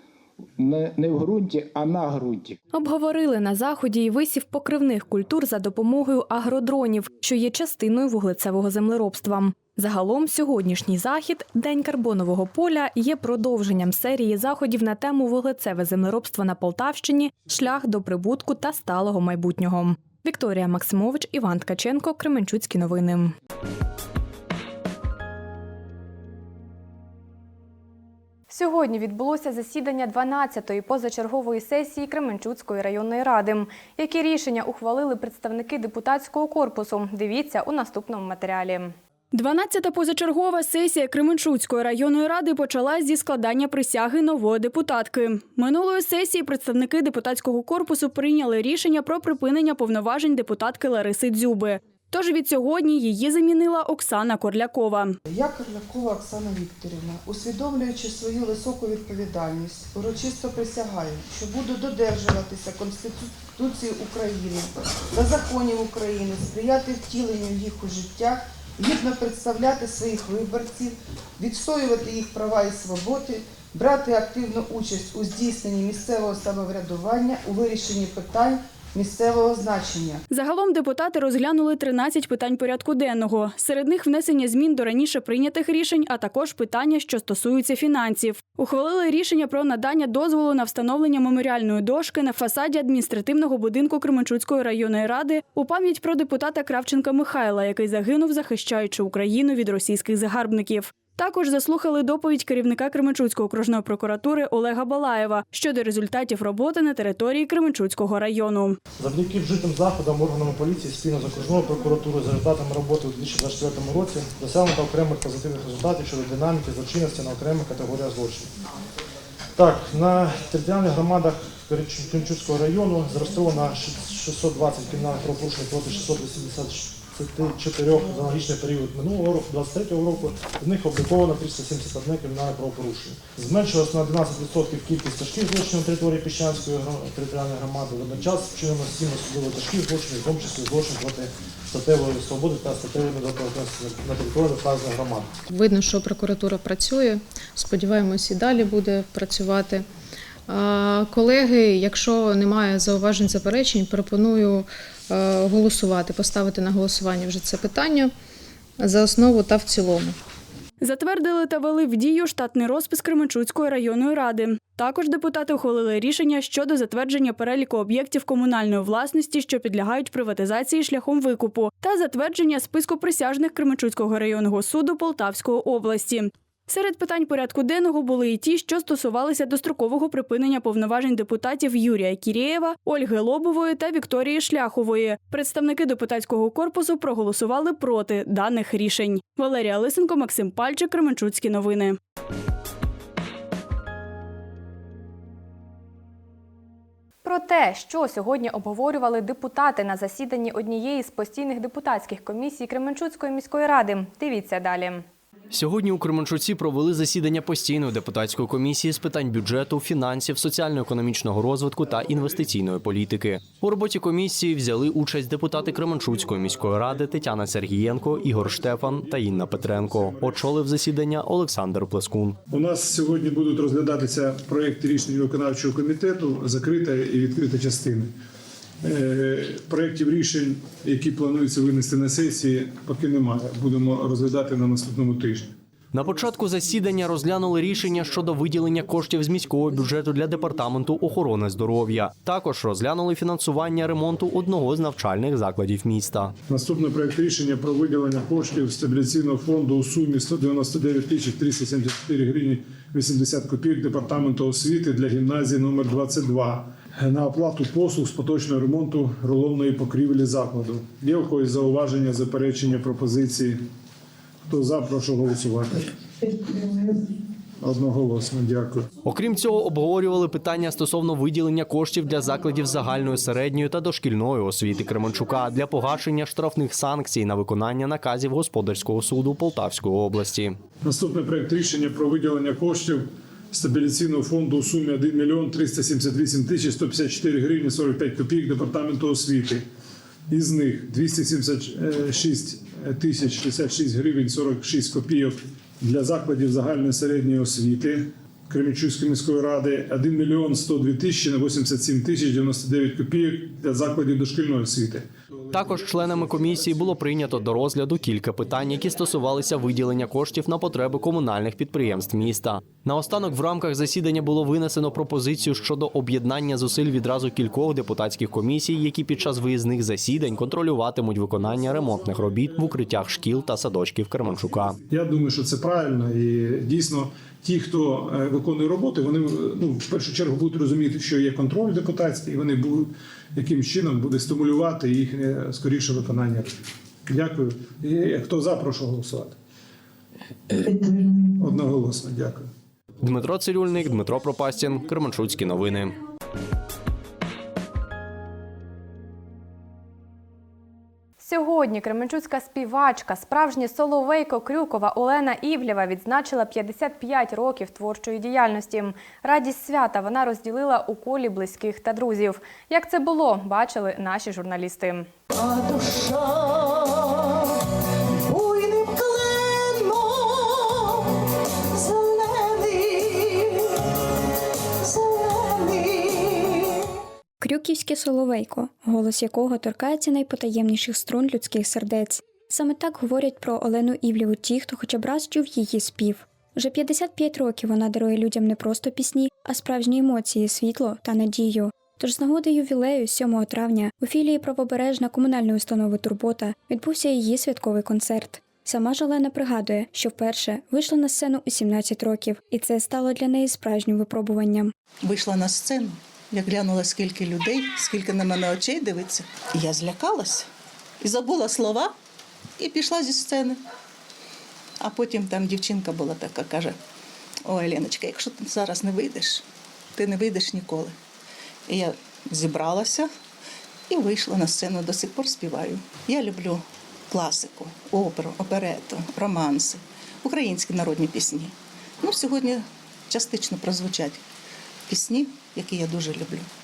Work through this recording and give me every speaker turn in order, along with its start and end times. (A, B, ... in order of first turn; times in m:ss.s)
0:00.6-0:02.6 A
0:02.7-0:23.3 B
0:28.5-0:38.9 B
0:39.3-0:55.2 C
0:55.3-1:20.2 D
1:20.3-1:48.8 C
1:49.0-1:58.5 E
1:59.6-2:25.3 E
2:25.5-2:29.8 F
2:30.5-2:38.1 F
2:38.8-2:40.2 F
2:40.8-3:12.0 C
3:17.2-3:25.0 B
3:25.5-3:42.4 G
3:38.0-3:40.5 H
3:42.5-3:48.1 H
3:48.8-3:55.5 H
3:55.9-4:06.3 G
4:06.5-4:23.6 H
4:24.5-4:25.9 H
4:27.6-4:28.9 H
4:29.0-4:40.5 G
4:40.8-4:49.6 H
4:50.3-5:06.7 H
5:05.5-5:24.8 G
5:24.9-5:36.5 H
5:37.1-5:39.4 H
5:41.4-5:42.5 H
5:43.0-5:46.0 G
5:51.2-6:05.1 B
6:05.5-6:06.6 A
6:08.4-6:10.7 A
6:17.4-6:44.7 I
6:45.0-6:50.5 J
6:51.0-6:51.9 J
6:52.6-6:53.6 J
6:54.8-6:56.8 J
6:57.4-6:59.4 J
7:00.0-7:00.9 J
7:01.7-7:03.1 J
7:03.9-7:14.2 J
7:14.9-7:16.5 J